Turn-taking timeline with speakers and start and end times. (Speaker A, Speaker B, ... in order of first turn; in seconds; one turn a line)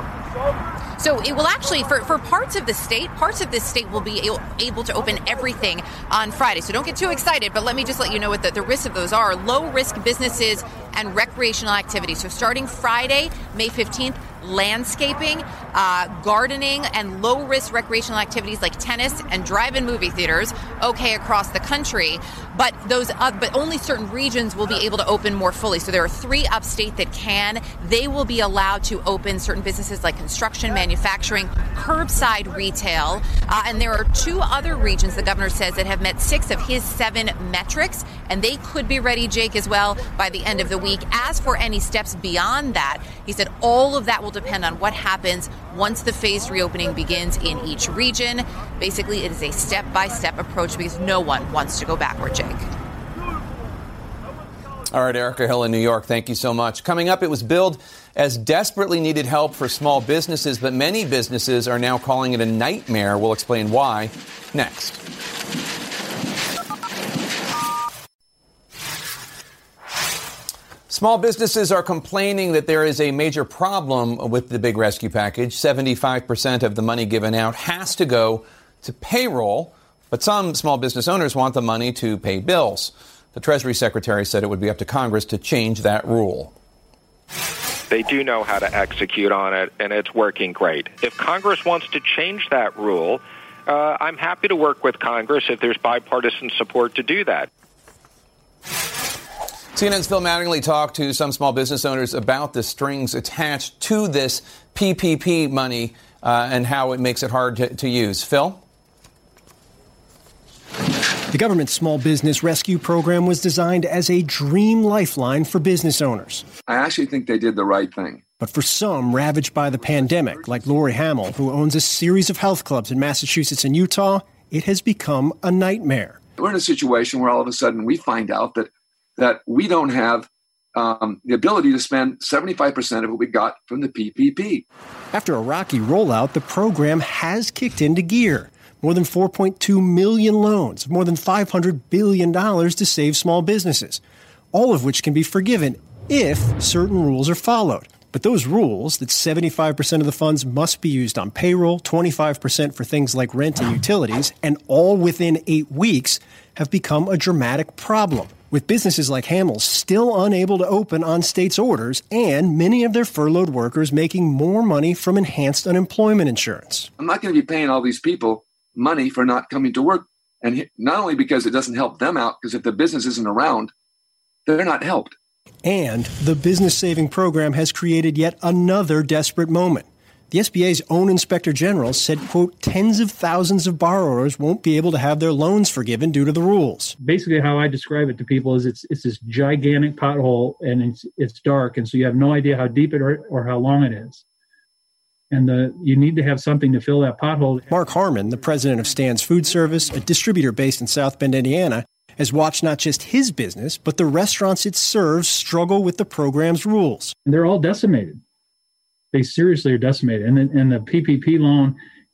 Speaker A: 1.0-52.7
Speaker B: 54.9-65.0
Speaker B: 70.9-86.5
Speaker C: 87.9-97.5
Speaker B: 99.8-108.6
Speaker D: 111.3-116.5
Speaker E: 116.7-118.2
Speaker D: 118.4-126.2
Speaker E: 126.4-134.6
Speaker D: 135.1-144.0
Speaker D: 144.5-166.9
Speaker E: 167.0-173.7
Speaker E: 174.5-175.2
Speaker D: 175.6-186.9
Speaker F: 187.0-194.2
Speaker F: 195.3-197.7
Speaker D: 197.7-207.2
Speaker F: 207.3-208.2
Speaker F: 209.1-211.8